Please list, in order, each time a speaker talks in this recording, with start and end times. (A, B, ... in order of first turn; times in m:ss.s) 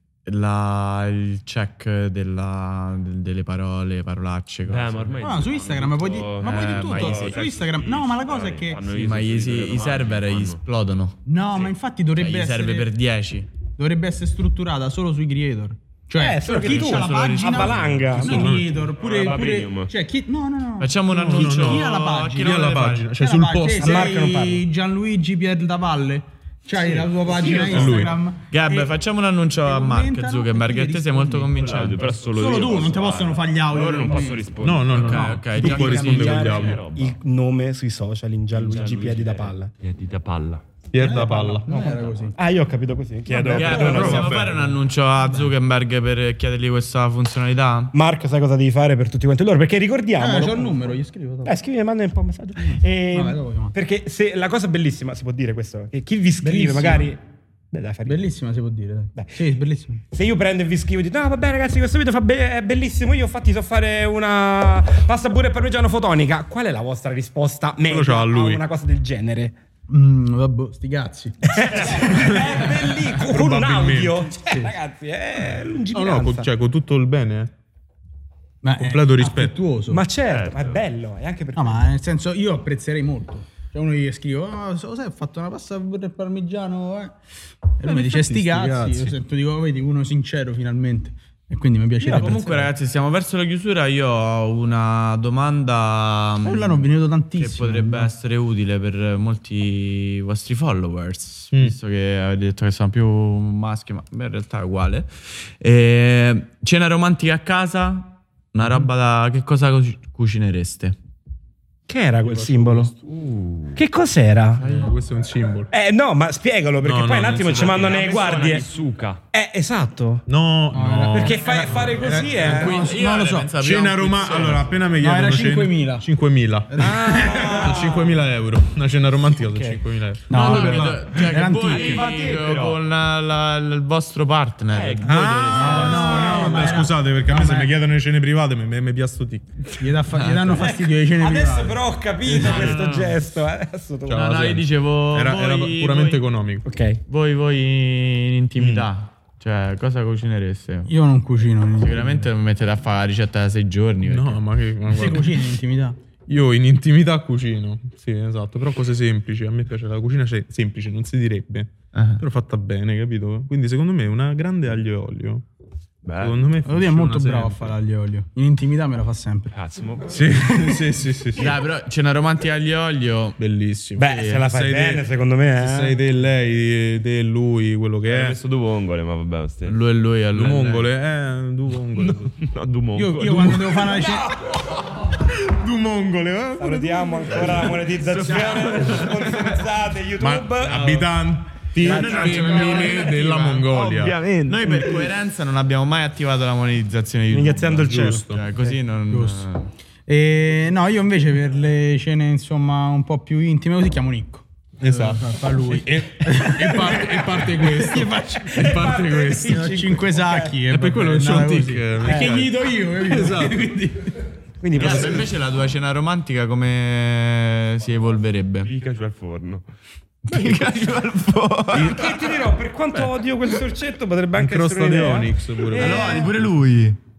0:00.3-0:05.2 A
0:04.6-0:10.6 B
0:05.2-0:08.8 C
0:06.4-0:07.4 A
0:08.9-0:11.2 A
0:11.3-0:12.9 C
0:12.1-0:13.5 A
0:13.8-0:29.0 C
0:16.2-0:18.6 D
0:16.6-0:18.0 A
0:18.0-0:18.9 E
0:18.9-0:19.9 B
0:20.8-0:23.0 A
0:21.1-0:24.2 E
0:23.8-0:24.6 D
0:26.9-0:28.0 A
0:27.6-0:28.1 D
0:27.7-0:28.2 E
0:28.5-0:32.2 A
0:29.6-0:34.5 C
0:31.6-0:37.2 B
0:34.6-0:36.8 E
0:35.0-0:36.5 A
0:35.6-0:39.7 D
0:38.6-0:40.6 B
0:40.9-0:41.7 E
0:41.0-0:42.4 C
0:41.7-0:44.4 D
0:43.3-0:44.8 E
0:43.5-0:48.0 A
0:47.9-0:50.8 D
0:50.2-0:51.6 C
0:51.4-0:57.2 D
0:52.6-0:53.8 C
0:56.4-0:57.1 C
0:57.7-0:58.2 D
0:58.0-1:00.0 C
1:00.1-1:09.6 D
1:07.9-1:08.6 E
1:09.9-1:12.5 C
1:11.4-1:16.5 D
1:11.9-1:14.3 E
1:14.5-1:14.8 C
1:15.9-1:17.5 E
1:18.6-1:20.0 C
1:18.7-1:19.6 E
1:19.9-1:22.0 D
1:20.3-1:20.8 B
1:21.6-1:27.2 C
1:27.8-1:32.7 C
1:27.9-1:29.2 E
1:32.0-1:51.0 A
1:36.4-1:38.1 C
1:51.9-1:52.9 D
1:53.0-1:53.8 B
1:53.8-1:54.6 D
1:54.6-1:55.0 A
1:54.6-1:55.7 E
1:55.7-1:58.7 D
1:56.8-1:58.0 E
1:57.5-1:59.2 B
1:59.3-2:00.2 D
2:00.3-2:01.8 E
2:00.7-2:03.5 C
2:01.1-2:02.8 D
2:02.4-2:04.8 A
2:03.6-2:07.0 E
2:05.0-2:06.1 C
2:06.7-2:07.8 C
2:06.8-2:08.1 D
2:07.5-2:11.3 E
2:09.4-2:09.8 D
2:10.3-2:12.0 C
2:10.3-2:16.7 A
2:11.6-2:12.8 B
2:14.7-2:16.5 B
2:15.0-2:19.7 E
2:15.6-2:17.7 C
2:16.1-2:16.6 D
2:19.8-2:21.8 C
2:20.1-2:20.6 A
2:20.6-2:24.3 D
2:22.4-2:22.7 B
2:22.5-2:23.1 A
2:24.1-2:26.7 E
2:24.1-2:26.3 A
2:26.6-2:27.0 D
2:27.1-2:30.9 A
2:28.6-2:28.9 E
2:30.9-2:32.3 C
2:31.8-2:34.4 A
2:34.0-2:35.4 E
2:34.9-2:36.0 C
2:36.3-2:45.5 E
2:41.9-2:42.2 A
2:46.0-2:46.5 B
2:46.2-2:47.8 E
2:46.6-2:49.6 C
2:49.5-2:50.4 B
2:50.1-2:51.6 E
2:51.4-2:53.4 A
2:53.4-2:55.0 E
2:54.0-2:56.0 D
2:54.0-2:54.4 A
2:55.6-2:58.4 E
2:58.0-2:59.8 B
2:59.7-3:00.9 A
3:00.3-3:02.3 E
3:02.0-3:03.9 B
3:03.0-3:04.4 C
3:03.2-3:03.9 E
3:05.1-3:07.7 E
3:06.6-3:11.1 D
3:08.0-3:09.1 B
3:10.2-3:14.2 E
3:11.8-3:13.0 D
3:11.8-3:13.8 A
3:13.7-3:14.6 B
3:14.5-3:19.7 A
3:14.6-3:15.0 D
3:17.3-3:18.8 D
3:17.7-3:18.4 E
3:19.1-3:19.5 C
3:20.1-3:28.8 C
3:24.8-3:30.0 E
3:28.5-3:30.5 D
3:29.4-3:34.2 C
3:30.7-3:33.7 E
3:32.0-3:32.5 D
3:34.6-3:35.3 D
3:34.8-3:35.3 E
3:34.8-3:38.7 A
3:38.6-3:39.7 B
3:40.3-3:42.1 A
3:41.7-3:46.3 D
3:44.4-3:46.0 E
3:45.7-3:47.0 A
3:45.8-3:46.2 C